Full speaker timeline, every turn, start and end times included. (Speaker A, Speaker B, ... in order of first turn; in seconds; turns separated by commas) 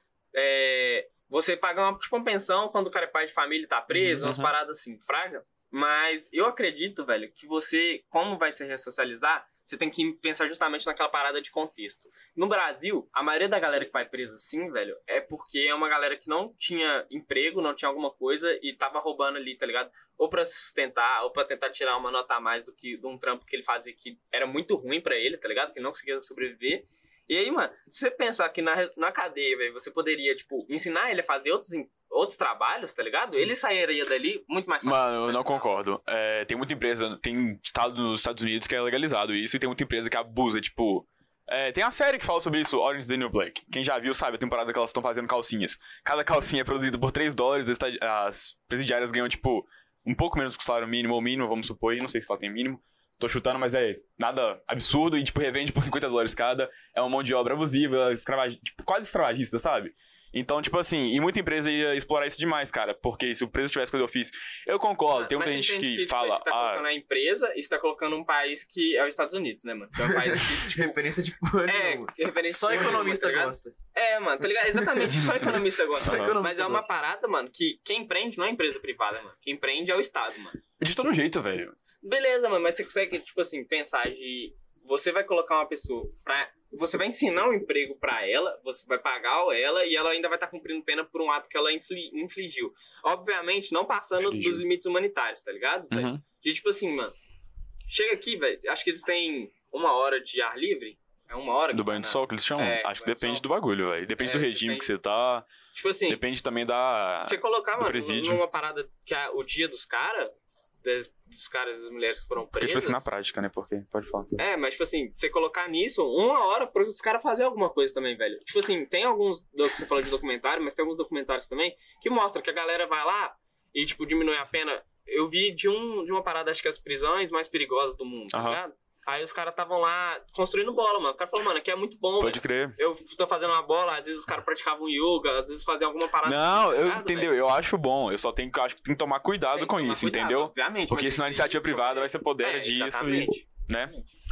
Speaker A: 0.3-35.8, Speaker B: 3.9-4.5, Speaker C: 34.8-66.8, Speaker A: 65.1-71.0, Speaker B: 70.0-73.7, Speaker A: 71.6-80.6, Speaker B: 75.0-75.2, Speaker B: 75.9-76.9, Speaker C: 76.0-76.4, Speaker C: 80.8-81.7, Speaker A: 82.0-97.1, Speaker C: 94.2-94.6, Speaker C: 95.9-96.2, Speaker A: 97.9-103.4, Speaker C: 101.7-105.5, Speaker A: 104.2-104.9, Speaker A: 105.7-106.2, Speaker C: 106.1-108.4, Speaker A: 107.2-113.0, Speaker C: 112.5-114.4, Speaker A: 114.4-137.3, Speaker C: 128.3-128.6, Speaker C: 132.2-132.8, Speaker C: 136.2-143.9, Speaker A: 139.5-143.4